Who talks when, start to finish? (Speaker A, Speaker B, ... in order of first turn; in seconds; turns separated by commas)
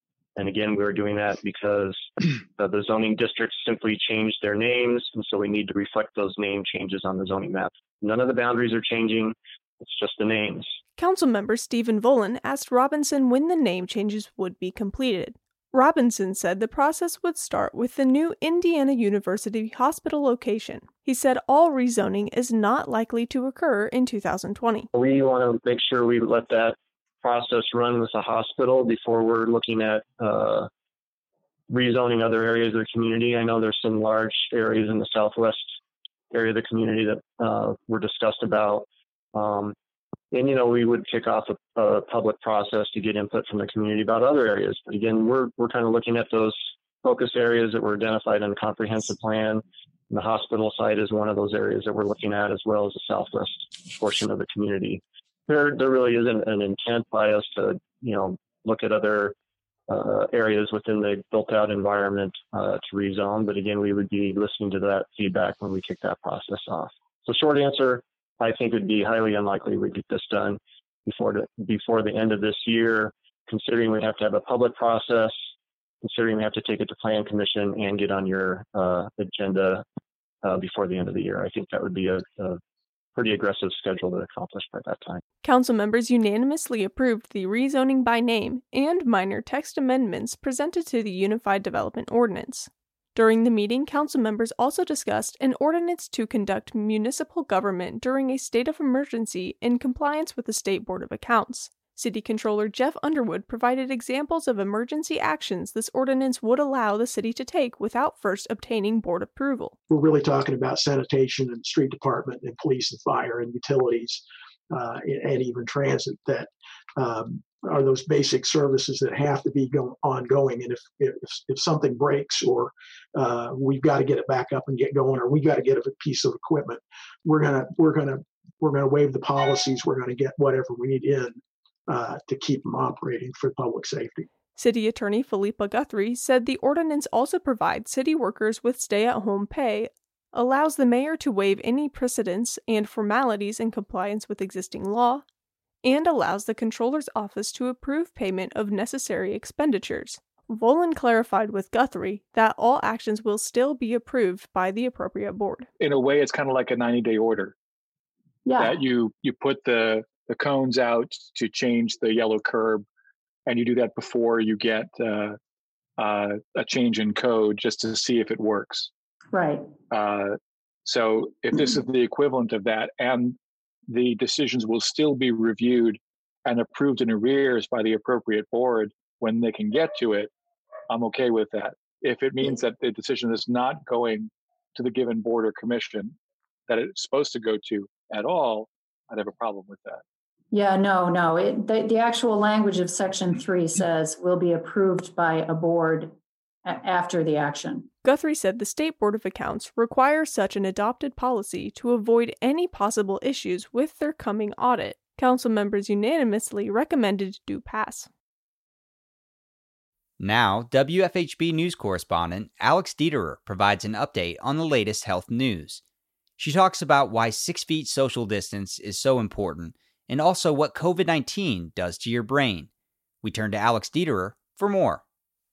Speaker A: 0.4-10.8, Speaker B: 11.0-24.9, Speaker A: 24.9-30.7, Speaker A: 31.7-35.7, Speaker A: 36.3-39.8, Speaker A: 40.3-59.4, Speaker A: 59.9-75.4, Speaker A: 76.0-79.8, Speaker A: 80.4-82.6, Speaker A: 83.2-85.2, Speaker B: 85.4-109.8, Speaker C: 109.9-134.3, Speaker B: 134.6-145.2, Speaker B: 145.8-155.7, Speaker D: 155.8-157.6, Speaker E: 158.5-158.8, Speaker D: 158.6-162.8, Speaker D: 163.5-165.4, Speaker D: 166.0-168.9, Speaker E: 169.3-169.7, Speaker D: 169.9-173.4, Speaker D: 173.9-180.3, Speaker D: 180.9-186.2, Speaker D: 186.7-190.0, Speaker E: 190.5-196.1, Speaker E: 196.7-197.9, Speaker B: 198.0-208.1, Speaker F: 210.2-215.8, Speaker F: 216.4-222.7, Speaker F: 223.2-225.0